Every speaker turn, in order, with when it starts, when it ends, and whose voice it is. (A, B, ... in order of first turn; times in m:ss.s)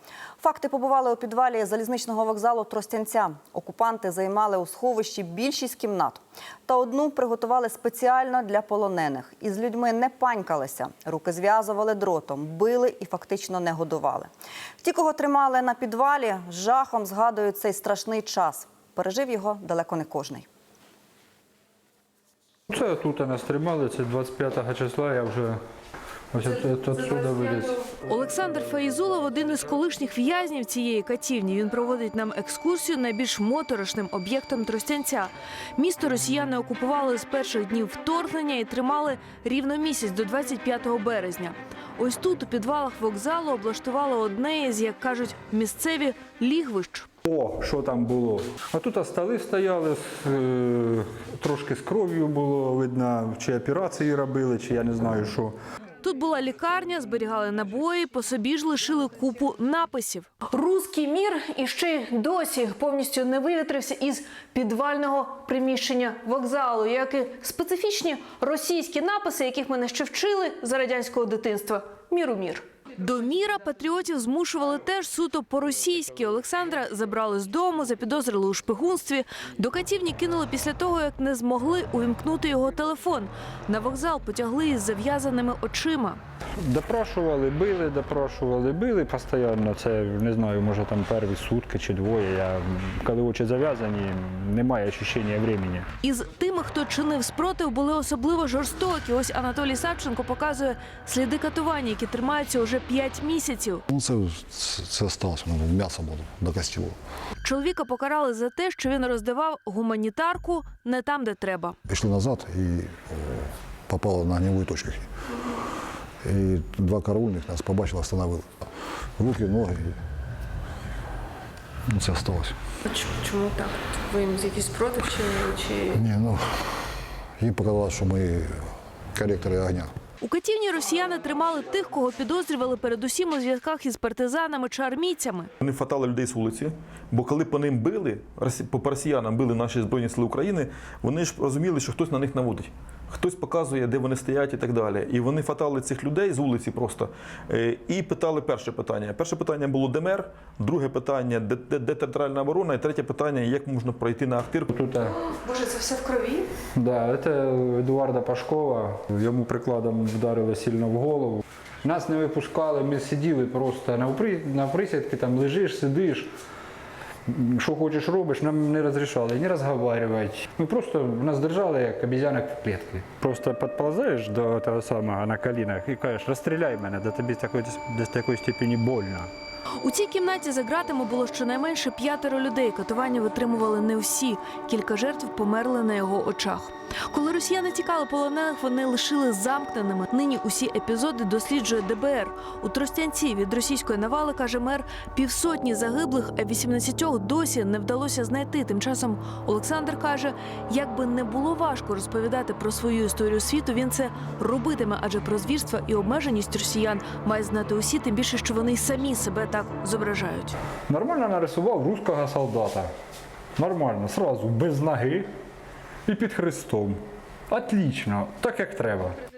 0:00.4-0:14.3 A
0:14.8-0:20.5 A
0:22.7-0:25.6 B
0:26.3-0:27.8 B
0:27.7-0:47.1 C
0:47.2-0:55.6 B
0:56.0-1:26.2 C
1:26.6-1:35.9 B
1:36.0-1:43.8 C
1:43.9-1:47.0 D
1:47.4-1:51.8 C
1:51.9-1:55.1 D
1:56.2-1:58.5 D
1:59.2-2:00.0 D
2:01.9-2:02.6 D
2:02.8-2:06.0 E
2:05.9-2:06.8 D
2:07.4-2:09.9 D
2:10.2-2:15.5 C
2:15.6-2:34.7 F
2:34.7-2:35.2 B
2:35.4-2:36.5 C
2:36.8-2:46.3 B
2:47.3-2:59.3 B
2:59.8-3:30.6 C
3:30.9-3:32.9 B
3:33.6-3:35.3 B
3:36.1-3:39.2 B